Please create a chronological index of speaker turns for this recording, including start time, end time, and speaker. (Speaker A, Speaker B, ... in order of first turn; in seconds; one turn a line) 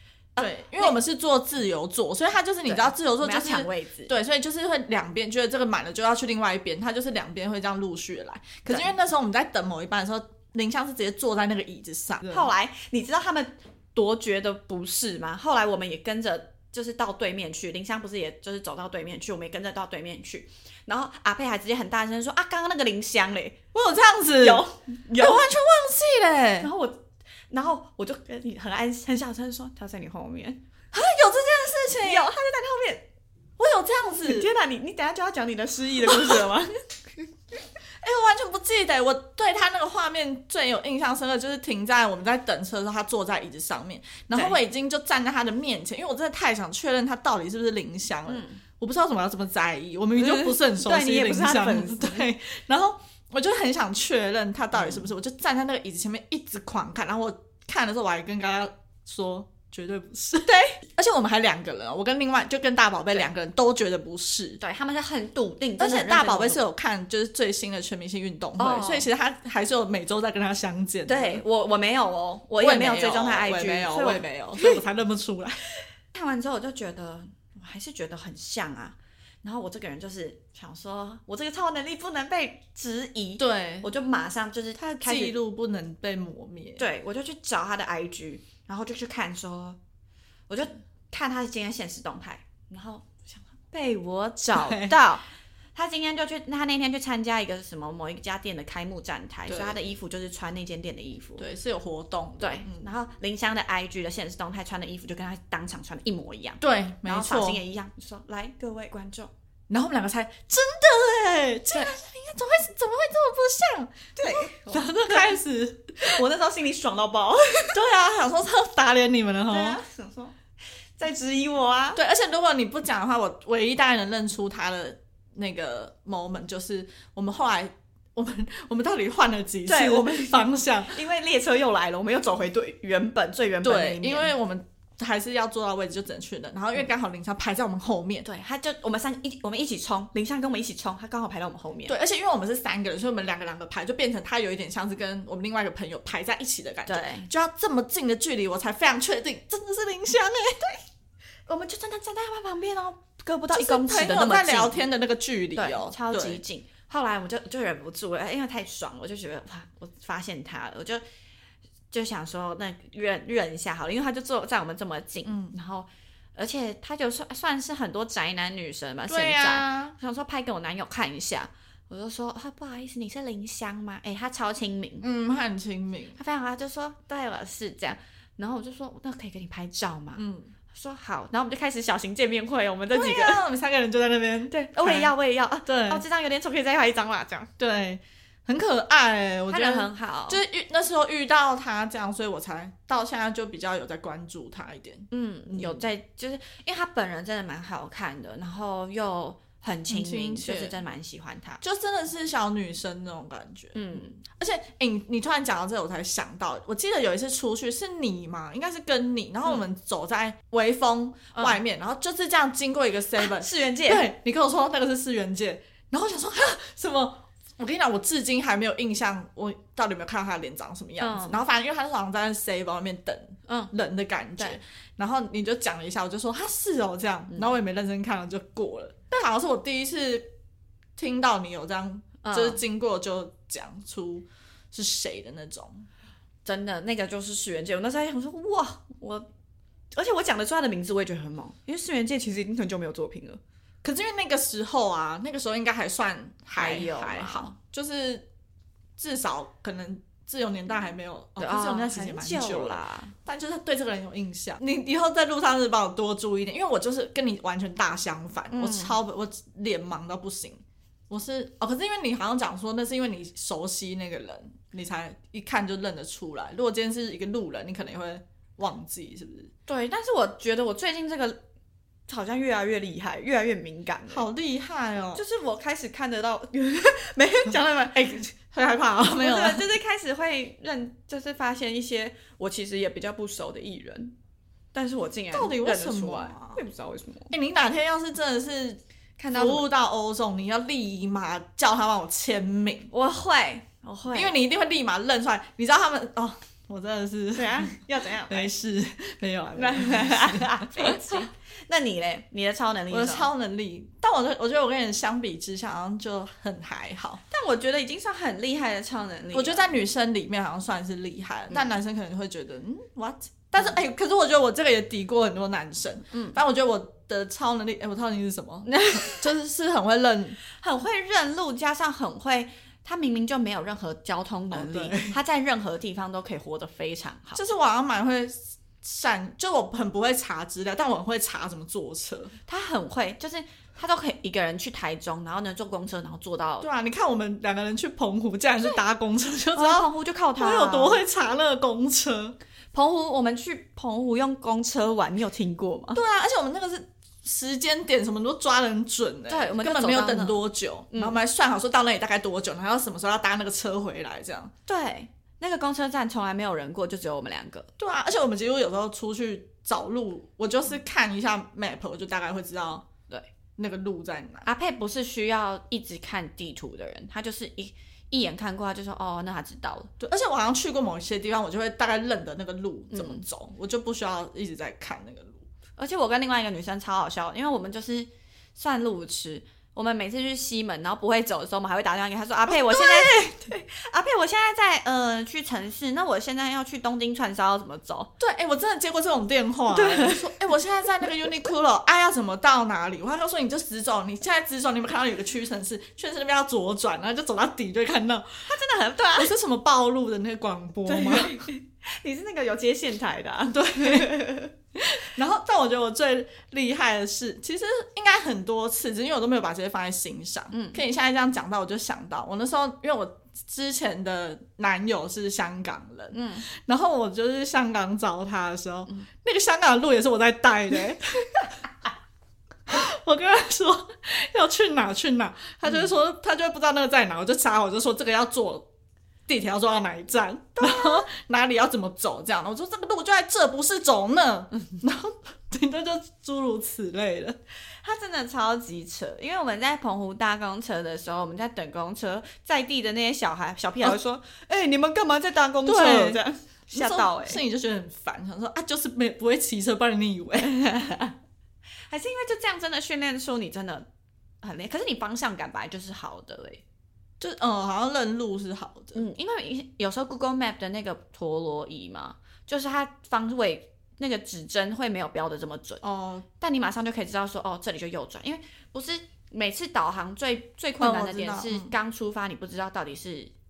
Speaker A: 0.4-1.0
Speaker B: 0.4-12.5
Speaker A: 2.7-4.1
Speaker A: 12.3-23.6
Speaker B: 23.7-26.7
Speaker A: 24.4-25.5
Speaker A: 26.6-30.6
Speaker B: 30.9-32.3
Speaker A: 32.0-33.1
Speaker B: 33.6-34.5
Speaker A: 34.2-36.8
Speaker B: 36.1-36.4
Speaker B: 38.0-64.6
Speaker A: 48.3-48.6
Speaker A: 50.2-52.3
Speaker A: 54.8-55.1
Speaker A: 60.5-60.8
Speaker A: 64.6-66.6
Speaker B: 65.8-71.4
Speaker A: 68.6-69.1
Speaker A: 71.1-74.8
Speaker B: 72.6-75.6
Speaker A: 76.1-85.3
Speaker B: 83.4-83.9
Speaker B: 84.8-86.8
Speaker A: 86.8-89.8
Speaker A: 90.5-95.2
Speaker B: 94.5-95.0
Speaker A: 95.8-101.5
Speaker B: 99.5-99.8
Speaker B: 101.4-102.9
Speaker A: 102.4-109.3
Speaker B: 106.6-107.6
Speaker B: 109.7-116.2
Speaker A: 114.2-115.4
Speaker A: 116.1-117.8
Speaker B: 117.7-119.8
Speaker A: 119.5-120.3
Speaker A: 121.0-122.0
Speaker B: 122.0-131.0
Speaker A: 129.7-134.3
Speaker B: 133.6-138.2
Speaker A: 138.2-142.0
Speaker B: 141.9-150.8
Speaker A: 146.9-147.3
Speaker A: 151.5-154.8
Speaker B: 153.5-156.4
Speaker A: 155.6-161.0
Speaker A: 161.9-175.1
Speaker B: 165.2-165.5
Speaker B: 169.1-169.9
Speaker B: 175.0-176.2
Speaker A: 176.2-183.4
Speaker B: 180.2-180.5
Speaker B: 182.9-185.1
Speaker A: 184.5-187.5
Speaker B: 185.7-186.0
Speaker B: 187.6-195.9
Speaker A: 189.5-190.4
Speaker A: 195.1-201.6
Speaker B: 199.9-200.8
Speaker B: 201.6-230.3
Speaker A: 203.8-204.2
Speaker A: 213.2-214.1
Speaker A: 221.0-221.4
Speaker A: 223.5-223.7
Speaker B: 231.0-235.9
Speaker A: 232.2-232.6
Speaker A: 236.4-239.3
Speaker A: 239.9-243.4
Speaker B: 243.8-248.3
Speaker A: 246.5-247.6
Speaker B: 249.0-269.5
Speaker A: 251.4-253.1
Speaker A: 258.5-258.9
Speaker A: 269.7-271.4
Speaker A: 272.1-274.3
Speaker B: 274.1-275.2
Speaker A: 275.1-278.2
Speaker B: 277.9-279.6
Speaker A: 279.0-284.1
Speaker A: 284.7-287.3
Speaker B: 285.3-286.6
Speaker B: 287.3-288.8
Speaker A: 289.2-289.7
Speaker B: 289.3-292.9
Speaker A: 292.9-294.4
Speaker B: 294.1-301.3
Speaker A: 297.4-298.5
Speaker A: 299.5-303.3
Speaker B: 302.9-307.2
Speaker A: 307.3-309.8
Speaker B: 309.3-320.4
Speaker A: 316.1-316.4
Speaker A: 318.6-319.3
Speaker A: 320.5-327.4
Speaker B: 324.5-325.2
Speaker B: 327.4-332.3
Speaker A: 332.4-336.7
Speaker B: 336.6-339.9
Speaker A: 339.6-341.0
Speaker B: 340.4-342.4
Speaker A: 342.7-346.0
Speaker B: 345.9-354.5
Speaker A: 349.3-351.1
Speaker A: 354.7-357.7
Speaker B: 357.8-362.9
Speaker B: 363.6-364.4
Speaker A: 364.4-369.9
Speaker B: 370.0-375.5
Speaker A: 372.9-373.2
Speaker A: 375.8-388.1
Speaker B: 382.5-383.3
Speaker B: 388.2-398.4
Speaker A: 389.7-390.5
Speaker A: 398.4-399.3
Speaker B: 399.1-401.4
Speaker A: 400.9-404.5
Speaker B: 403.5-404.2
Speaker B: 404.8-421.5
Speaker A: 410.5-410.8
Speaker A: 416.1-416.4
Speaker B: 422.7-428.7
Speaker B: 429.3-437.4
Speaker A: 430.6-431.1
Speaker A: 437.8-447.4
Speaker B: 445.6-446.2
Speaker B: 446.7-450.5
Speaker A: 450.4-451.1
Speaker A: 451.9-453.9
Speaker A: 454.4-456.6
Speaker B: 457.2-459.0
Speaker A: 458.9-465.8
Speaker B: 465.8-466.2
Speaker A: 466.4-473.3
Speaker B: 470.8-471.8